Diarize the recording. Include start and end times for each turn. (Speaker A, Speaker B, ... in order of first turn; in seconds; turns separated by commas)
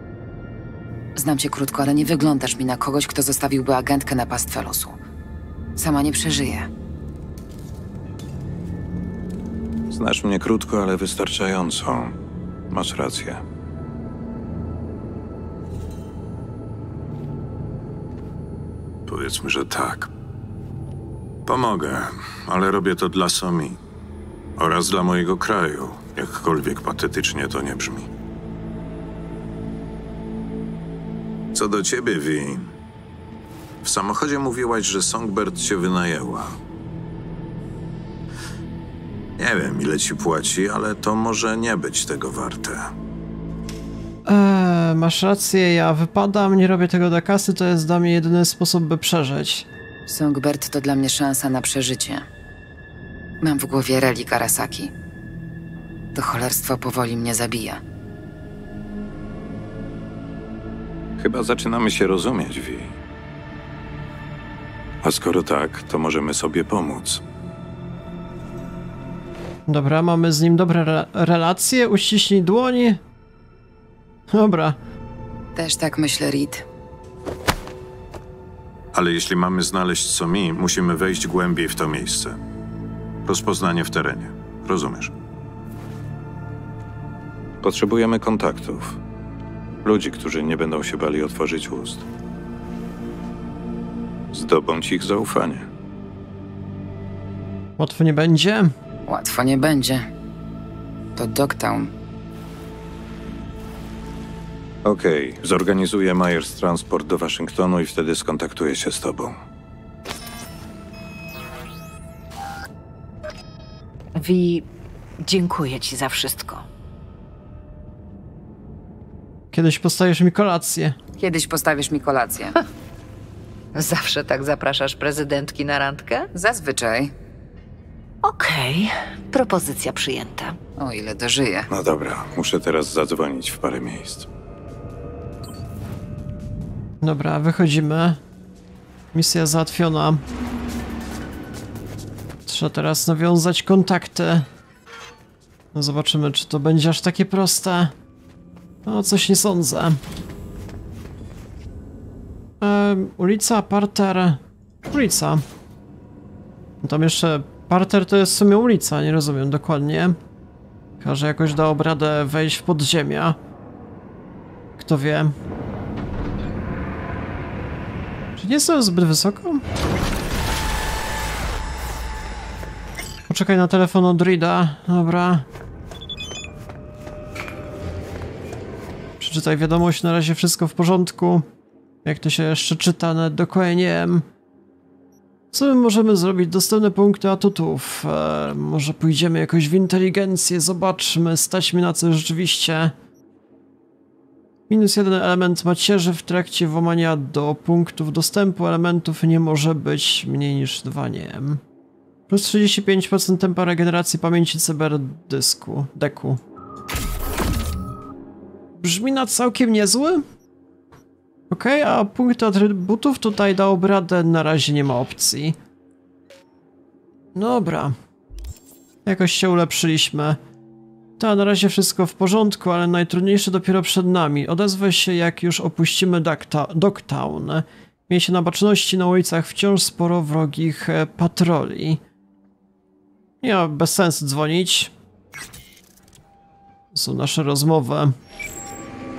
Speaker A: 1.1-5.0, Speaker A: 5.8-6.7, Speaker B: 9.9-12.2, Speaker B: 12.7-13.4, Speaker B: 19.1-20.1, Speaker B: 21.4-23.8, Speaker B: 24.6-28.1, Speaker B: 31.5-32.7, Speaker B: 33.8-36.6, Speaker B: 39.4-42.9, Speaker C: 44.2-49.7, Speaker A: 50.1-52.2, Speaker A: 53.4-54.9, Speaker A: 56.1-57.8, Speaker B: 61.2-63.0, Speaker B: 65.0-67.2, Speaker C: 69.7-73.0, Speaker C: 74.3-74.8, Speaker A: 75.5-76.6, Speaker B: 78.9-82.4, Speaker B: 83.2-85.1, Speaker B: 87.6-89.0, Speaker B: 89.8-92.0, Speaker B: 94.3-95.7, Speaker C: 97.8-98.7, Speaker A: 99.1-100.1, Speaker A: 101.2-101.9, Speaker B: 104.8-109.3, Speaker D: 114.2-114.7, Speaker D: 115.2-116.6, Speaker C: 119.5-121.0, Speaker A: 121.2-122.5, Speaker D: 123.7-126.3, Speaker A: 126.3-127.1, Speaker D: 128.2-130.6, Speaker A: 130.8-131.7, Speaker B: 131.7-134.3, Speaker C: 137.0-138.2, Speaker C: 139.1-140.2, Speaker C: 142.4-144.5, Speaker C: 145.7-147.9, Speaker C: 148.8-150.0, Speaker C: 152.6-155.4, Speaker C: 156.8-160.2, Speaker C: 161.0-163.4, Speaker C: 164.8-165.3, Speaker C: 168.4-169.6, Speaker C: 173.3-175.4, Speaker C: 179.2-181.4, Speaker C: 182.0-184.2, Speaker C: 185.5-192.9, Speaker C: 194.7-201.6, Speaker C: 202.3-206.4, Speaker C: 208.8-210.2, Speaker C: 211.5-215.6, Speaker C: 217.3-217.9, Speaker C: 219.1-220.4, Speaker C: 221.2-232.0, Speaker C: 233.4-234.9, Speaker C: 236.9-238.1